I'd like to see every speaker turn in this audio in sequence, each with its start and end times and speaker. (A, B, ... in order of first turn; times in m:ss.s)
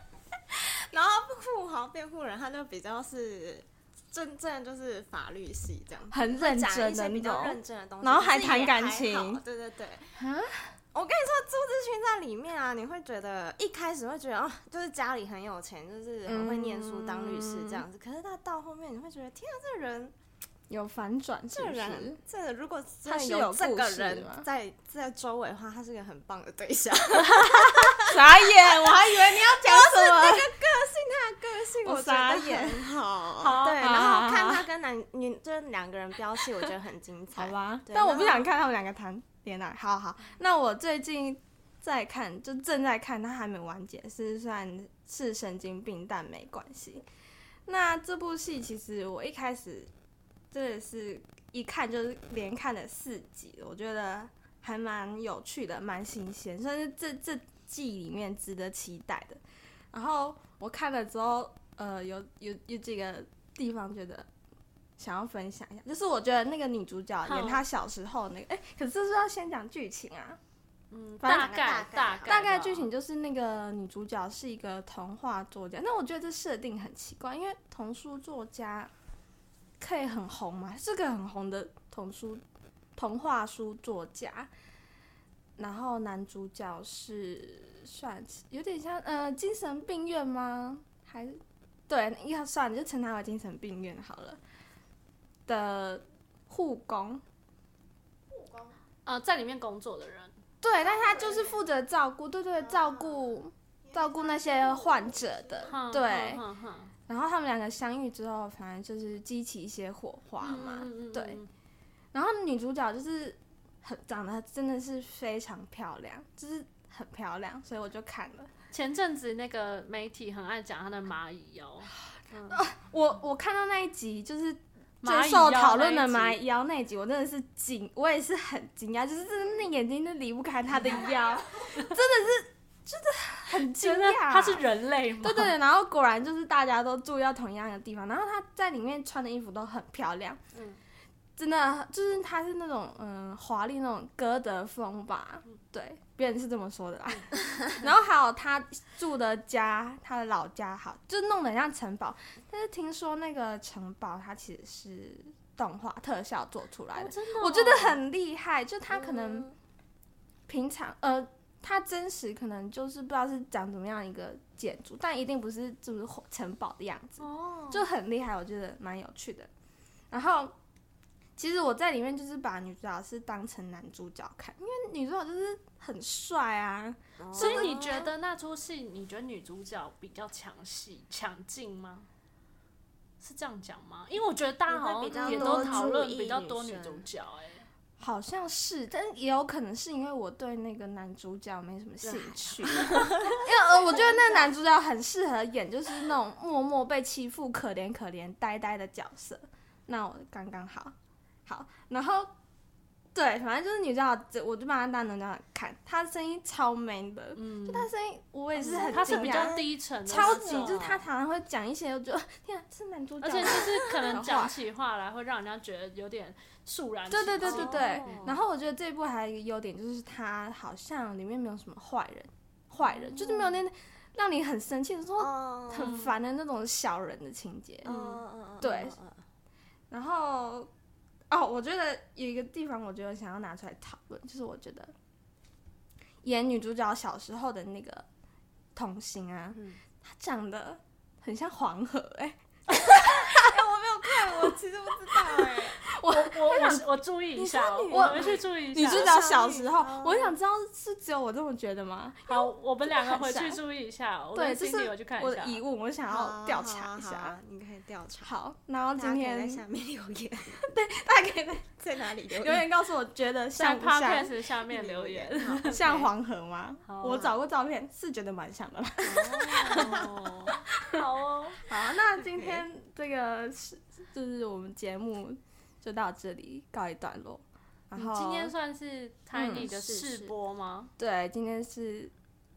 0:00.5-0:10.2 A
0:06.1-0:09.4 B
0:10.2-0:10.7 B
0:10.9-0:20.1 A
0:16.2-0:17.8 B
0:20.7-0:22.2 B
0:21.5-0:38.5 A
0:23.0-0:24.4 B
0:28.0-0:30.5 B
0:31.8-0:32.9 B
0:33.4-0:33.9 C
0:33.6-0:34.6 B
0:37.4-0:47.0 B
0:47.6-0:49.9 B
0:50.5-0:59.4 B
0:59.9-1:04.3 B
1:05.0-1:10.4 B
1:07.2-1:07.6 C
1:10.9-1:12.9 C
1:11.2-1:12.4 A
1:11.2-1:18.9 B
1:19.8-1:22.4 B
1:23.0-1:24.5 B
1:25.6-1:31.4 B
1:31.9-1:34.4 B
1:35.5-1:37.2 B
1:38.3-1:38.7 A
1:39.0-1:40.3 C
1:40.6-1:46.4 B
1:40.8-1:41.6 A
1:42.6-1:45.7 A
1:45.6-1:46.9 C
1:47.1-1:51.4 B
1:50.4-1:51.5 C
1:52.1-1:58.5 B
1:58.7-2:02.6 C
2:02.5-2:14.7 B
2:05.0-2:06.4 C
2:13.6-2:15.6 C
2:15.2-2:20.4 B
2:21.4-2:39.5 B
2:37.0-2:38.0 C
2:40.5-2:49.5 B
2:47.2-2:47.9 C
2:50.1-2:50.5 B
2:51.4-2:58.1 B
2:57.2-2:58.0 A
2:57.3-3:02.1 C
3:03.2-3:07.6 C
3:04.7-3:07.1 A
3:05.1-3:06.0 B
3:08.0-3:20.9 B
3:12.0-3:13.1 C
3:14.1-3:14.4 A
3:21.4-3:22.3 B
3:23.1-3:34.6 B
3:27.4-3:27.9 C
3:28.5-3:31.1 A
3:28.8-3:30.8 C
3:33.2-3:38.2 C
3:37.1-3:49.0 B
3:37.4-3:38.4 A
3:42.8-3:43.6 C
3:45.2-3:46.1 A
3:45.7-3:46.1 C
3:47.8-3:49.2 A
3:47.9-3:48.2 C
3:49.9-3:50.7 B
3:51.3-3:54.9 B
3:56.2-3:58.0 B
3:58.7-4:03.4 B
3:59.5-3:59.8 A
4:02.8-4:05.8 A
4:05.3-4:13.6 B
4:06.1-4:09.1 C
4:07.7-4:10.4 A
4:12.3-4:15.6 C
4:14.3-4:17.4 B
4:16.1-4:18.3 A
4:18.2-4:19.6 B
4:19.0-4:20.6 A
4:20.6-4:21.7 B
4:21.8-4:22.6 A
4:22.3-4:24.3 B
4:23.5-4:25.8 C
4:24.6-4:26.1 A
4:25.4-4:30.1 B
4:26.8-4:27.4 C
4:29.0-4:30.1 A
4:29.4-4:31.6 C
4:31.7-4:38.5 B
4:32.2-4:32.6 A
4:38.0-4:40.9 C
4:39.3-4:40.3 B
4:41.0-4:42.1 B